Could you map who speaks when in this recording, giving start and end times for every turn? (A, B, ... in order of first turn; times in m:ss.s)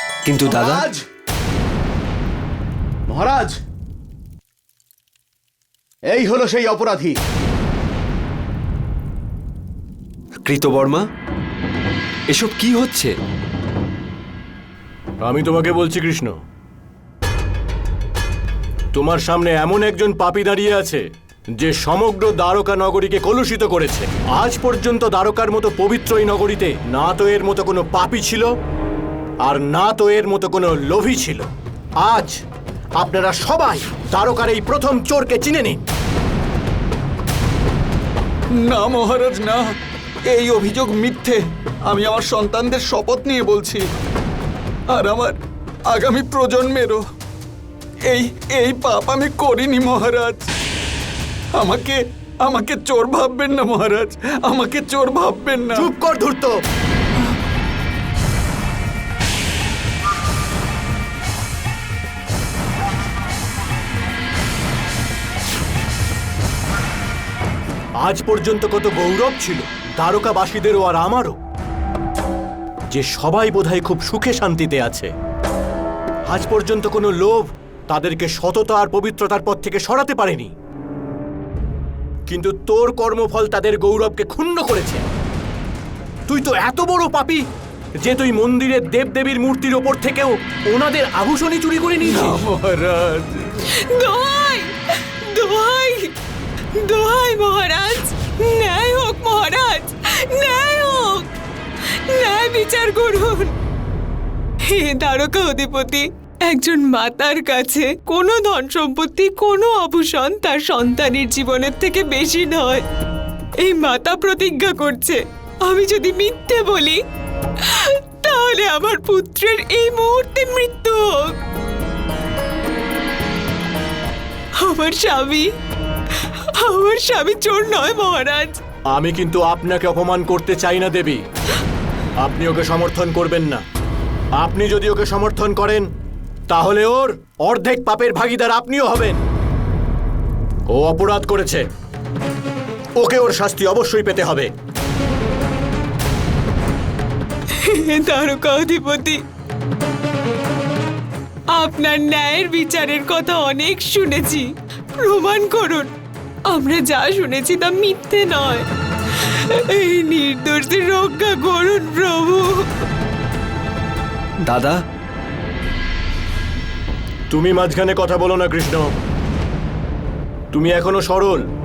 0:00.3-0:00.9 A
0:00.5-0:01.0 B
0:03.1-0:03.6 B
0:06.1-0:07.2 B
0:10.4-0:11.0 A
0:12.3-0:13.1 A
0:15.2-0:16.3 C
0:18.9-0:21.0 C
0:21.6-0:28.5 C
0:29.4-0:31.5 C
0:32.0-0:32.4 C
0:33.0-0:35.8 C
0:38.5-0:43.9 D
0:44.9-0:47.0 D
0:48.0-0:50.5 D
0:51.5-0:55.9 D
0:55.7-0:56.6 C
1:08.0-1:11.4 C
1:12.9-1:15.1 C
1:16.3-1:20.5 C
1:22.3-1:25.1 C
1:26.3-1:27.5 C
1:28.0-1:32.5 C
1:32.0-1:33.6 D
1:33.7-1:36.1 E
1:36.8-1:41.3 E
1:42.1-1:43.6 E
1:44.7-1:52.9 E
1:53.6-1:57.0 E
1:57.6-2:01.4 E
2:04.6-2:05.5 E
2:06.6-2:08.6 E
2:08.9-2:11.2 C
2:12.2-2:13.6 C
2:14.4-2:15.9 C
2:16.5-2:19.2 C
2:20.7-2:21.7 C
2:23.0-2:24.5 C
2:27.6-2:29.2 E
2:31.5-2:35.9 E
2:36.5-2:42.7 E
2:44.5-2:44.8 A
2:47.3-2:48.9 C
2:50.5-2:51.4 C